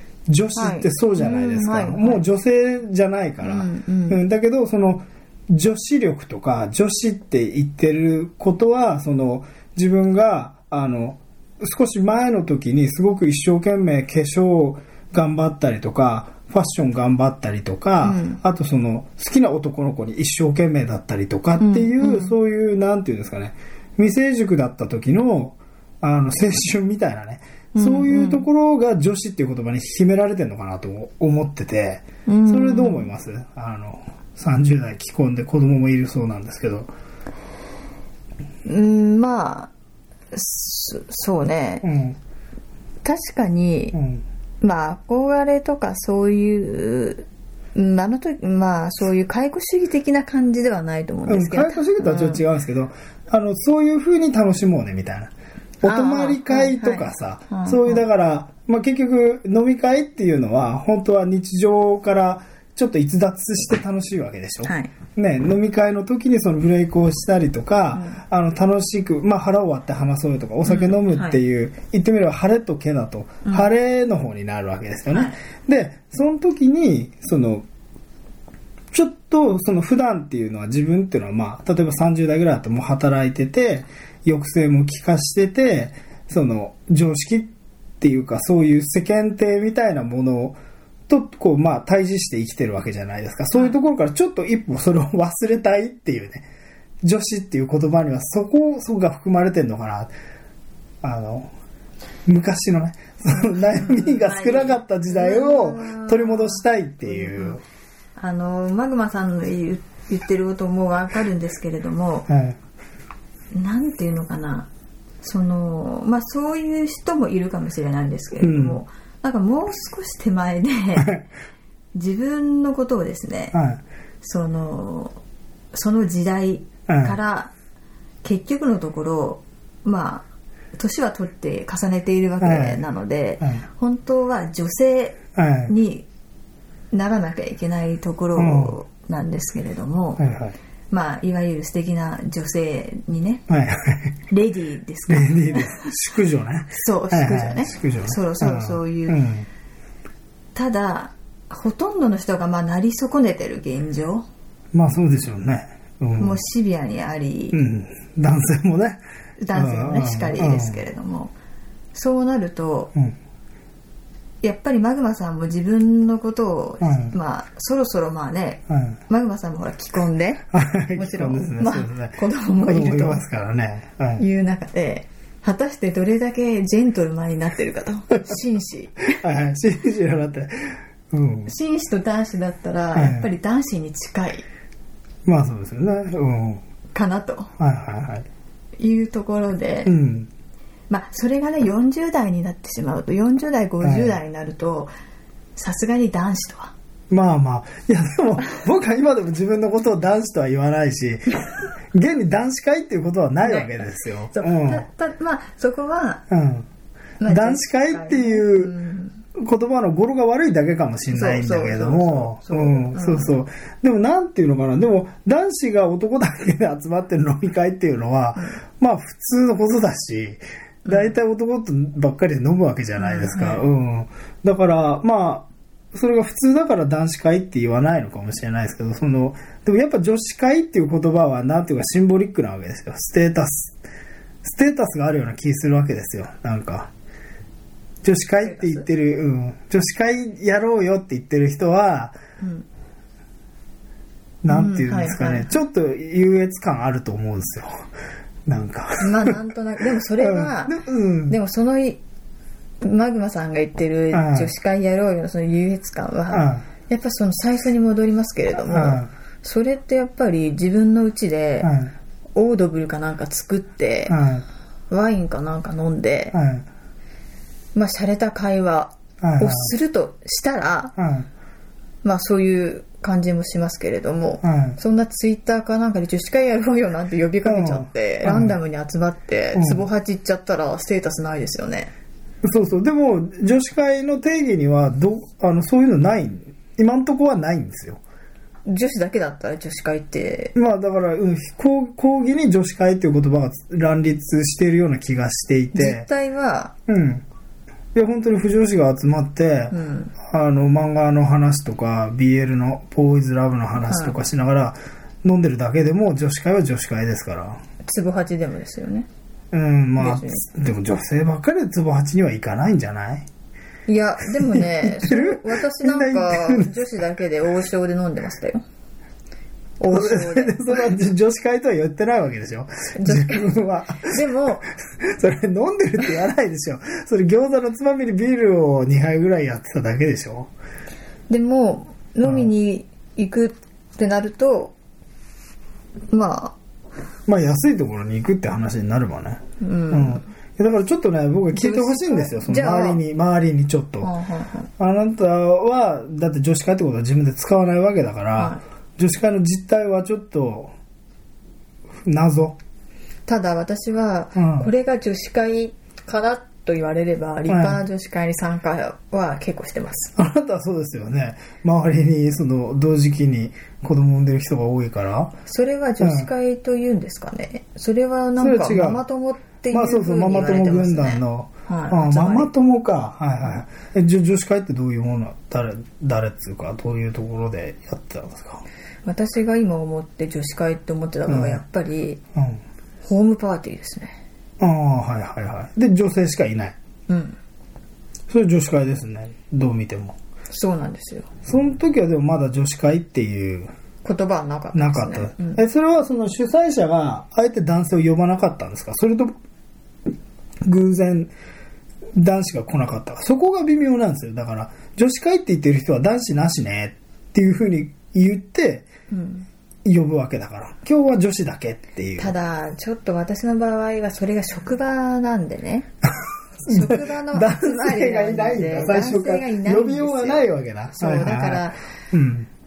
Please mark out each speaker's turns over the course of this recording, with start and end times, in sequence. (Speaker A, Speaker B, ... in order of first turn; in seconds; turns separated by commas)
Speaker A: 0.3-36.9, Speaker B: 0.5-2.2, Speaker B: 3.4-4.2, Speaker B: 18.0-18.4, Speaker B: 21.6-22.3, Speaker B: 27.7-28.5, Speaker B: 32.2-33.1, Speaker B: 38.6-39.7, Speaker B: 40.3-41.9, Speaker A: 41.8-42.2, Speaker B: 43.0-44.0, Speaker A: 43.9-44.2, Speaker B: 44.6-52.4, Speaker A: 51.3-77.6, Speaker B: 55.8-58.0, Speaker B: 64.6-64.9, Speaker B: 67.9-68.2, Speaker B: 70.6-71.4, Speaker B: 75.1-75.4, Speaker A: 78.9-96.5, Speaker A: 97.0-100.1, Speaker A: 101.0-101.5, Speaker A: 102.2-107.6, Speaker B: 103.3-107.6, Speaker B: 108.2-112.3, Speaker A: 112.3-112.6, Speaker B: 113.5-114.7, Speaker B: 115.2-121.2, Speaker A: 118.4-118.8, Speaker B: 121.9-123.5, Speaker A: 123.5-123.8, Speaker B: 124.2-125.2, Speaker B: 125.7-127.5, Speaker A: 126.9-127.2, Speaker B: 128.2-136.1, Speaker A: 132.4-132.8, Speaker A: 135.3-135.7, Speaker B: 136.9-140.2, Speaker A: 138.4-138.8, Speaker A: 140.2-140.6, Speaker B: 140.9-143.4, Speaker A: 143.5-144.1, Speaker B: 144.3-145.9, Speaker A: 145.1-149.5, Speaker B: 146.7-149.2, Speaker B: 150.5-154.2, Speaker A: 154.7-156.4, Speaker B: 156.2-157.6, Speaker A: 157.5-159.0, Speaker B: 159.4-161.3, Speaker A: 159.5-160.8, Speaker B: 161.9-162.9, Speaker B: 164.4-173.2, Speaker A: 166.8-167.1, Speaker A: 168.7-169.0, Speaker A: 170.5-174.2, Speaker B: 174.2-179.2, Speaker A: 179.1-181.5, Speaker B: 181.5-184.4, Speaker A: 182.9-183.3, Speaker A: 185.2-186.6, Speaker B: 186.9-187.5, Speaker A: 187.6-188.3, Speaker B: 188.8-189.9, Speaker A: 189.8-190.3, Speaker B: 190.9-194.9, Speaker A: 193.8-194.2, Speaker B: 195.6-196.7, Speaker A: 197.1-201.3, Speaker A: 201.9-204.8, Speaker B: 203.4-206.2, Speaker A: 206.3-206.7, Speaker B: 207.2-209.2, Speaker A: 207.2-208.7, Speaker A: 209.3-233.8, Speaker B: 211.1-213.3, Speaker B: 220.8-221.1, Speaker B: 223.0-223.7, Speaker A: 234.4-236.9, Speaker A: 238.0-242.2, Speaker B: 238.4-238.8, Speaker B: 242.4-242.7, Speaker A: 244.4-247.7, Speaker B: 244.5-245.5, Speaker A: 248.5-249.4, Speaker B: 249.0-252.0, Speaker A: 250.2-251.4, Speaker B: 252.8-261.7, Speaker A: 254.1-254.5, Speaker A: 256.3-256.6, Speaker A: 258.6-259.1, Speaker A: 261.6-261.9, Speaker B: 262.3-264.2, Speaker A: 264.1-264.4, Speaker B: 264.9-266.4, Speaker A: 266.3-266.6, Speaker B: 267.7-270.9, Speaker A: 269.2-269.7, Speaker A: 271.0-271.3, Speaker B: 272.0-281.9, Speaker A: 274.4-274.8, Speaker A: 277.4-278.6, Speaker A: 279.5-279.8, Speaker A: 282.4-288.0, Speaker B: 288.6-290.5, Speaker A: 290.5-296.1, Speaker B: 295.7-296.7, Speaker A: 296.9-297.2, Speaker A: 297.9-307.6, Speaker B: 299.7-300.1, Speaker B: 303.9-304.2, Speaker B: 307.8-309.1, Speaker A: 309.5-313.3, Speaker B: 310.0-310.4, Speaker B: 313.9-318.6, Speaker A: 314.4-316.8, Speaker B: 319.8-320.8, Speaker A: 319.9-324.1, Speaker B: 323.0-324.7, Speaker A: 325.0-330.5, Speaker B: 331.3-334.7, Speaker A: 332.2-332.5, Speaker B: 336.1-336.6, Speaker A: 337.3-344.1, Speaker B: 339.6-340.3, Speaker B: 341.5-343.0, Speaker B: 344.0-344.7, Speaker A: 344.8-350.7, Speaker A: 352.0-352.6, Speaker B: 353.3-360.1, Speaker A: 354.4-354.7, Speaker A: 357.5-357.8, Speaker A: 360.1-365.4, Speaker B: 365.4-372.5, Speaker A: 366.0-366.3, Speaker A: 368.4-369.0, Speaker A: 369.7-378.6, Speaker B: 379.0-382.2, Speaker A: 381.3-381.6, Speaker A: 382.3-382.6, Speaker B: 383.0-384.2, Speaker A: 384.6-386.8, Speaker B: 387.1-387.4, Speaker A: 388.3-390.1, Speaker B: 390.5-391.3, Speaker A: 391.4-393.7, Speaker B: 394.0-395.6, Speaker A: 394.7-399.3, Speaker A: 400.6-401.3, Speaker A: 402.1-408.9, Speaker B: 409.1-409.4, Speaker A: 409.8-412.4, Speaker B: 412.2-415.9, Speaker B: 416.6-420.4, Speaker A: 416.6-422.5, Speaker B: 420.9-421.8